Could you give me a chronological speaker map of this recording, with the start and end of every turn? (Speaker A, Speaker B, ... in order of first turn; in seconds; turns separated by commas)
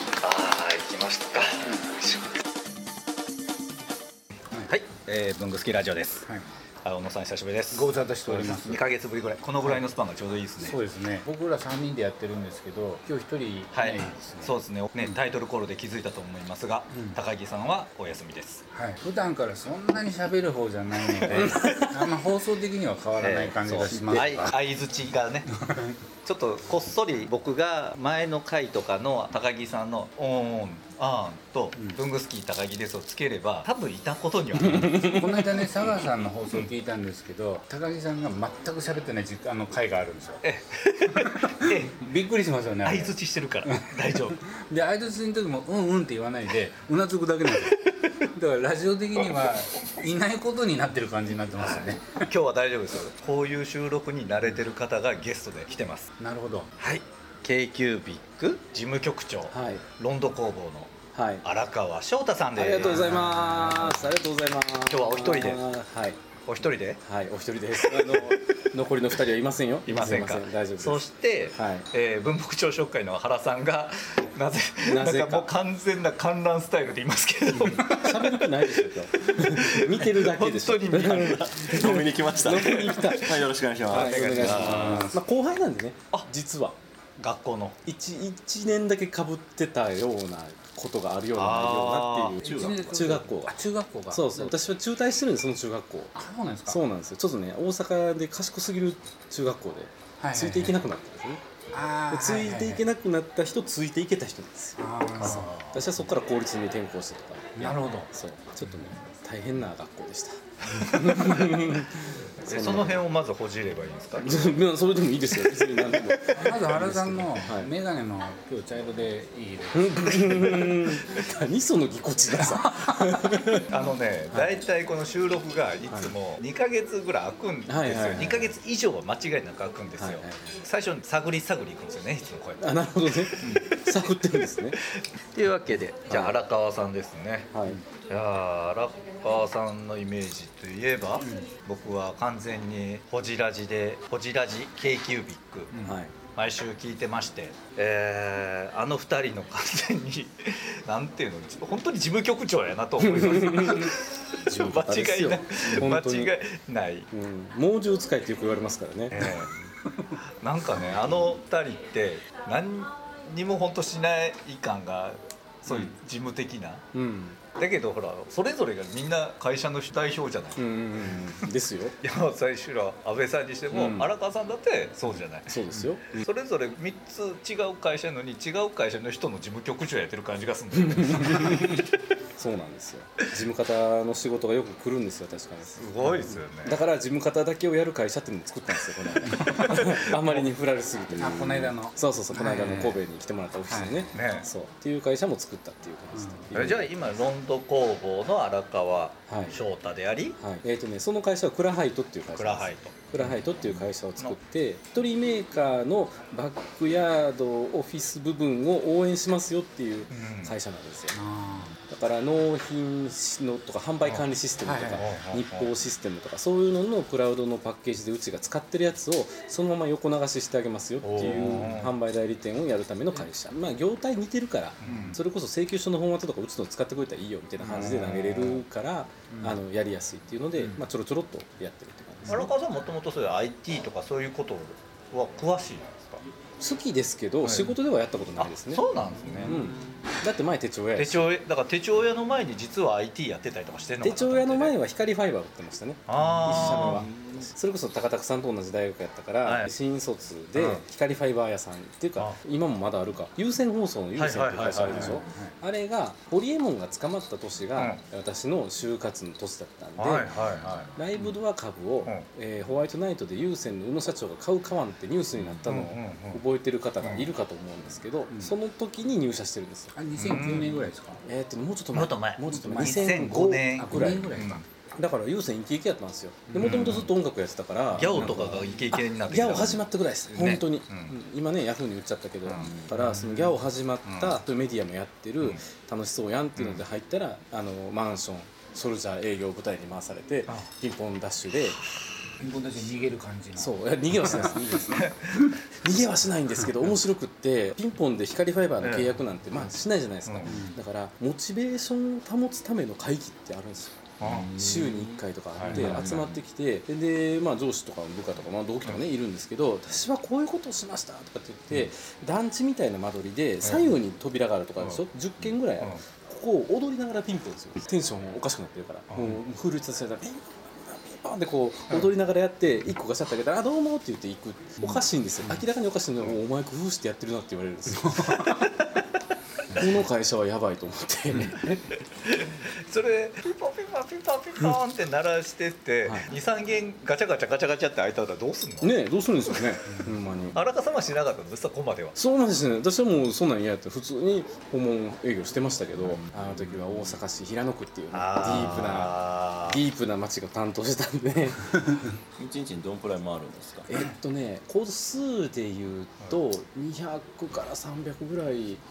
Speaker A: 0.2-2.3, Speaker A: 4.6-6.3, Speaker A: 6.8-10.8, Speaker B: 7.7-8.8, Speaker B: 10.6-15.2, Speaker A: 13.7-18.6, Speaker B: 16.9-17.2, Speaker B: 18.7-24.6, Speaker A: 21.1-22.1, Speaker C: 21.3-21.9, Speaker A: 23.2-25.5, Speaker C: 23.8-24.3, Speaker B: 25.4-26.0, Speaker A: 26.2-35.6, Speaker B: 31.7-32.0, Speaker B: 34.9-40.4, Speaker A: 40.4-42.0, Speaker B: 41.2-47.8, Speaker A: 42.8-44.4, Speaker A: 47.7-48.0, Speaker B: 48.3-52.3, Speaker A: 51.5-56.1, Speaker B: 56.2-56.7, Speaker A: 56.8-60.9, Speaker C: 59.5-59.9, Speaker C: 61.1-61.4, Speaker A: 61.4-63.2, Speaker C: 62.5-66.2, Speaker B: 63.0-64.1, Speaker A: 64.9-65.6, Speaker A: 66.5-67.0, Speaker C: 67.0-71.9, Speaker A: 67.8-68.7, Speaker A: 69.8-85.2, Speaker C: 74.8-75.5, Speaker B: 77.7-78.1, Speaker C: 77.9-83.3, Speaker D: 81.0-84.8, Speaker C: 83.9-86.8, Speaker B: 84.7-85.2, Speaker A: 87.2-87.8, Speaker C: 87.8-93.6, Speaker A: 91.3-92.3, Speaker B: 92.4-94.5, Speaker D: 92.4-92.9, Speaker C: 94.1-96.1, Speaker B: 96.1-96.8, Speaker C: 96.7-101.4, Speaker B: 100.2-100.8, Speaker B: 101.7-102.8, Speaker C: 102.1-113.0, Speaker B: 104.8-105.8, Speaker A: 105.2-105.5, Speaker B: 107.5-108.1, Speaker A: 110.9-111.7, Speaker B: 111.1-111.5, Speaker A: 112.4-114.6, Speaker C: 114.2-117.7, Speaker B: 116.3-120.6, Speaker C: 119.7-123.6, Speaker A: 123.7-134.1, Speaker C: 125.9-126.1, Speaker C: 127.7-128.6, Speaker C: 129.9-130.6, Speaker C: 132.6-134.8, Speaker A: 135.0-145.7, Speaker C: 136.1-136.4, Speaker C: 137.5-137.8, Speaker B: 141.2-141.5, Speaker B: 145.7-146.0, Speaker C: 145.8-146.1, Speaker A: 146.3-157.1, Speaker C: 153.0-153.9, Speaker C: 154.4-156.3, Speaker C: 157.1-159.5, Speaker A: 159.1-159.5, Speaker A: 160.4-166.8, Speaker C: 166.9-167.4, Speaker A: 167.5-170.6, Speaker C: 170.5-172.0, Speaker A: 172.0-181.8, Speaker C: 173.7-174.1, Speaker C: 175.4-176.2, Speaker C: 180.9-181.8, Speaker C: 182.3-197.1, Speaker A: 185.7-186.8, Speaker A: 189.5-190.4, Speaker B: 191.1-192.9, Speaker B: 193.7-194.1, Speaker A: 194.1-194.4, Speaker B: 196.1-196.5, Speaker A: 196.5-200.4, Speaker C: 199.3-199.6, Speaker C: 200.4-211.2, Speaker A: 202.3-204.4, Speaker A: 210.1-210.5, Speaker B: 211.1-211.7, Speaker C: 211.9-232.5, Speaker B: 214.6-215.0, Speaker A: 215.0-215.7, Speaker A: 221.0-221.9, Speaker B: 221.5-221.9, Speaker A: 224.8-225.2, Speaker B: 224.8-225.2, Speaker A: 227.6-228.6, Speaker B: 229.3-229.6, Speaker B: 232.2-232.5, Speaker A: 232.3-236.2, Speaker C: 236.6-238.9, Speaker A: 237.4-237.7, Speaker A: 238.4-239.6, Speaker C: 239.4-241.2, Speaker A: 240.9-244.8, Speaker C: 244.0-260.3, Speaker A: 246.1-247.1, Speaker D: 246.6-247.5, Speaker A: 249.4-249.7, Speaker A: 250.5-250.8, Speaker A: 254.1-255.2, Speaker B: 254.8-255.5, Speaker A: 260.0-261.3, Speaker C: 260.9-269.9, Speaker A: 265.6-266.4, Speaker A: 267.0-267.3, Speaker B: 268.3-268.5, Speaker B: 269.9-271.2, Speaker A: 270.2-270.9, Speaker C: 271.2-274.4, Speaker A: 271.9-274.6, Speaker B: 272.6-274.6, Speaker C: 274.9-291.8, Speaker A: 276.5-277.1, Speaker A: 277.9-281.1, Speaker B: 278.1-278.4, Speaker A: 282.4-282.8, Speaker B: 283.0-283.3, Speaker A: 284.1-284.4, Speaker A: 286.6-286.8, Speaker B: 292.4-293.8, Speaker C: 293.6-295.1, Speaker A: 294.3-295.5, Speaker C: 295.8-328.6, Speaker A: 298.8-299.1, Speaker A: 300.2-300.6, Speaker B: 300.4-300.8, Speaker A: 304.2-304.5, Speaker D: 304.2-305.2, Speaker A: 305.6-306.1, Speaker B: 305.7-306.0, Speaker D: 305.9-306.4, Speaker A: 313.6-313.9, Speaker A: 319.1-319.4, Speaker C: 329.7-331.9, Speaker A: 332.1-338.9, Speaker C: 338.8-340.6, Speaker A: 340.5-342.1, Speaker C: 342.1-351.9, Speaker A: 348.1-349.8, Speaker D: 352.4-353.9, Speaker C: 353.9-358.8